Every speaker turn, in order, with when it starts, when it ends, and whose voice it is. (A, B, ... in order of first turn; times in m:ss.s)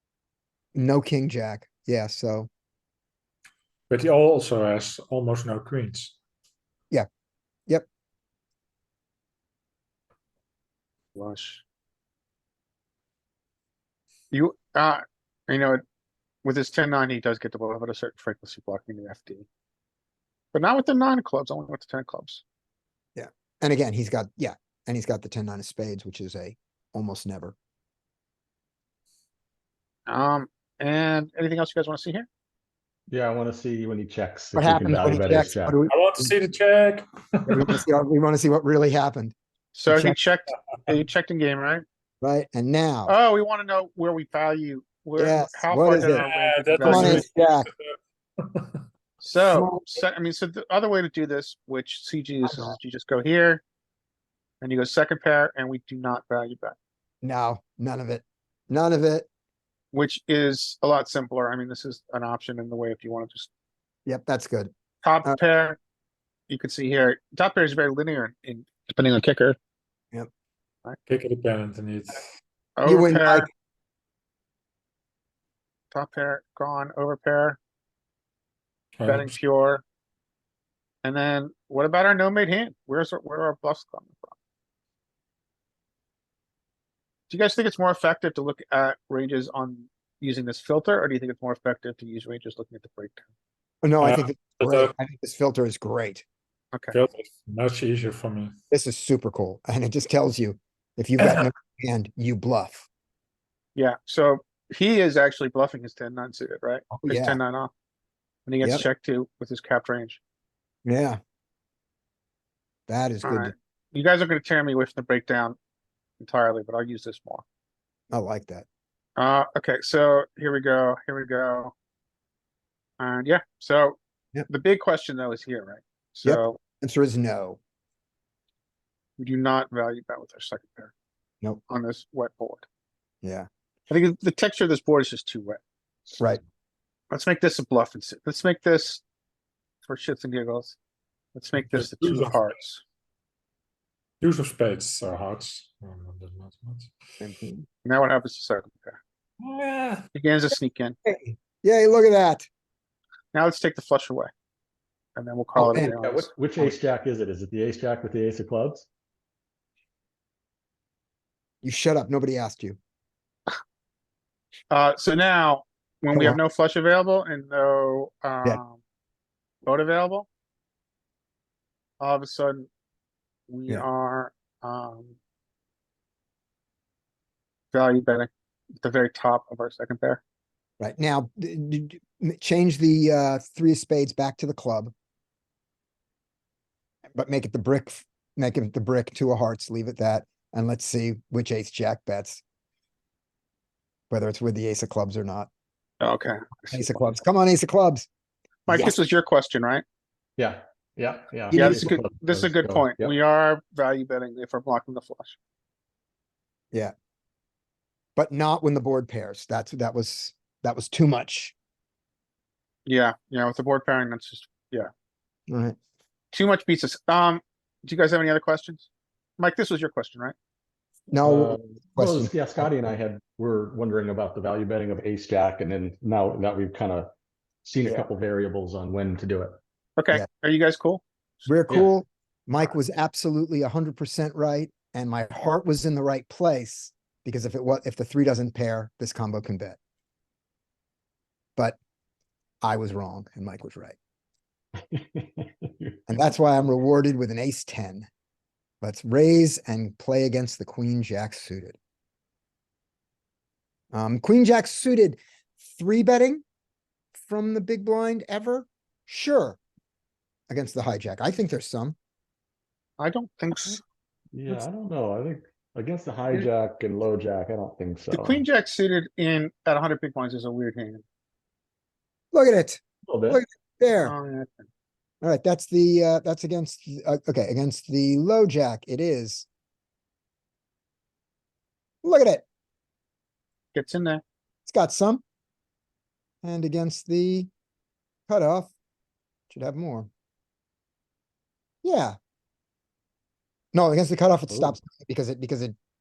0:00.7-0:02.5 A
0:03.9-0:06.1 B
0:11.1-0:11.6 C
0:14.3-0:15.8 C
0:16.4-0:19.4 C
0:20.5-0:22.4 C
0:23.2-0:27.6 A
0:30.1-0:32.3 C
0:33.1-0:35.8 D
0:34.5-0:36.3 A
0:35.9-0:37.7 B
0:37.5-0:39.3 A
0:39.7-0:41.8 C
0:39.9-0:40.2 A
0:42.2-0:43.1 A
0:43.1-0:47.2 C
0:45.2-0:46.2 A
0:45.9-0:48.8 B
0:46.8-0:47.7 A
0:49.2-0:53.6 C
0:49.4-0:49.8 A
0:54.6-0:56.8 C
0:57.2-0:59.3 A
0:59.9-1:03.5 C
1:04.0-1:04.7 A
1:05.0-1:05.8 C
1:06.5-1:09.6 C
1:11.1-1:12.2 B
1:12.8-1:13.5 C
1:12.8-1:13.5 A
1:15.9-1:17.6 C
1:19.0-1:19.3 B
1:19.0-1:19.8 C
1:21.0-1:24.3 C
1:27.3-1:33.2 C
1:33.8-1:36.2 A
1:34.0-1:34.9 B
1:36.9-1:38.5 B
1:38.7-1:42.9 A
1:41.2-1:41.5 B
1:43.7-1:47.7 C
1:46.9-1:47.4 A
1:48.5-1:50.2 C
1:50.8-1:51.2 A
1:52.9-1:53.5 A
1:53.2-1:55.6 C
1:56.2-1:57.4 C
1:58.1-1:58.6 A
1:59.2-2:01.7 C
2:03.0-2:06.6 C
2:06.2-2:07.6 A
2:09.2-2:10.9 C
2:11.7-2:12.6 C
2:13.2-2:13.5 A
2:13.9-2:15.6 C
2:17.1-2:19.0 C
2:19.8-2:20.8 C
2:21.3-2:22.8 C
2:21.6-2:22.4 B
2:24.2-2:26.9 B
2:27.2-2:27.6 A
2:27.8-2:29.0 C
2:29.4-2:30.0 B
2:30.1-2:31.0 C
2:31.0-2:32.5 A
2:33.3-2:34.3 C
2:35.2-2:36.3 C
2:35.6-2:35.9 A
2:35.7-2:38.9 D
2:41.6-2:42.8 A
2:44.7-2:48.8 C
2:46.1-2:46.4 A
2:49.6-2:50.3 C
2:52.0-2:52.7 C
2:53.5-2:55.2 C
2:57.7-3:00.2 C
3:00.8-3:04.9 A
3:07.1-3:12.4 A
3:14.1-3:15.5 A
3:16.0-3:17.0 C
3:16.7-3:18.1 A
3:18.7-3:19.0 A
3:18.7-3:19.8 C
3:20.4-3:23.1 D
3:21.5-3:21.9 A
3:21.5-3:25.4 C
3:28.2-3:31.5 A
3:32.8-3:34.9 C
3:35.5-3:35.8 A
3:36.3-3:40.3 C
3:41.1-3:42.7 A
3:41.2-3:47.1 D
3:47.6-3:49.6 D
3:50.0-3:51.5 C
3:51.5-3:59.8 A
4:02.6-4:04.0 A
4:04.9-4:06.0 D
4:06.1-4:08.1 A
4:08.8-4:11.8 A
4:13.9-4:16.4 A
4:17.1-4:19.6 A
4:20.5-4:22.0 A
4:23.0-4:23.8 C
4:24.3-4:28.4 D
4:28.1-4:31.0 C
4:32.3-4:34.1 A
4:33.1-4:33.4 D
4:34.0-4:34.6 C
4:35.2-4:39.4 A
4:42.0-4:42.4 A
4:43.7-4:44.2 C
4:44.6-4:45.2 A
4:46.4-4:47.5 A
4:48.3-4:48.7 A
4:49.5-4:50.1 A
4:51.8-4:52.2 A
4:53.7-4:55.7 A